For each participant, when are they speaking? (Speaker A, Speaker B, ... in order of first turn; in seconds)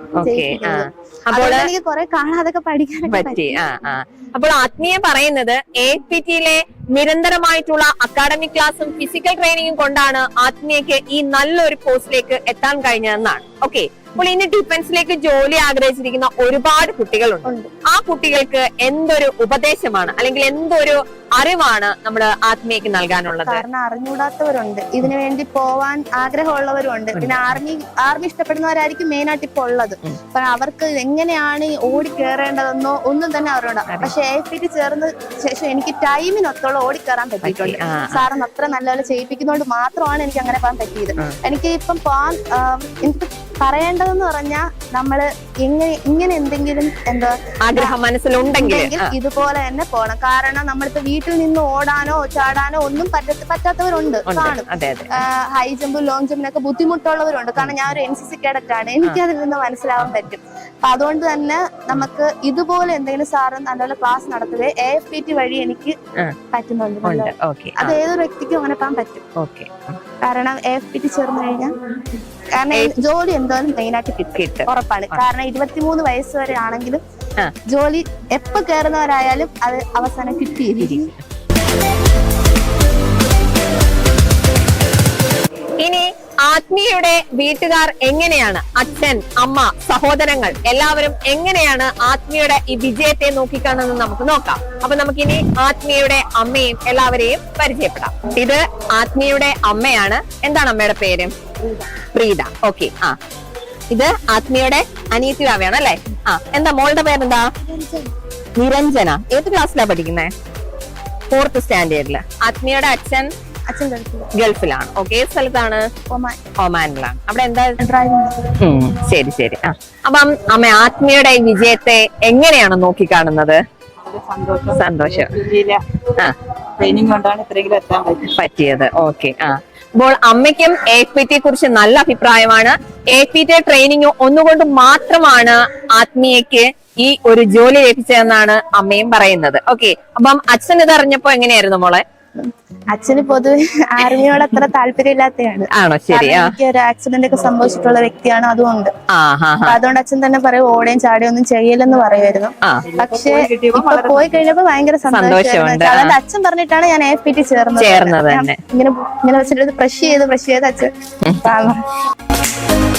Speaker A: 0.2-1.7, 3.1-23.6, 27.1-27.6, 33.9-34.1, 37.4-38.2, 47.6-49.1, 54.3-55.2, 57.6-58.0, 67.0-68.0, 69.4-70.0, 74.2-75.2, 80.8-81.2, 85.8-103.2, 103.9-107.5, 108.6-110.3, 111.3-113.3, 114.3-115.8, 116.6-117.8, 118.6-123.6, 124.7-125.4, 126.1-126.3, 128.3-142.0, 145.7-146.5, 149.1-149.8, 155.1-156.1, 157.8-158.6
Speaker B: 0.2-3.6, 23.4-47.9, 48.5-66.0, 66.5-69.2, 70.2-71.7, 72.6-77.0, 77.7-81.1, 107.6-108.1, 113.7-114.3, 116.1-116.4, 117.8-118.4, 142.4-148.9, 149.7-160.9, 161.4-161.8
Speaker C: 124.0-125.8, 126.8-128.3, 152.9-154.3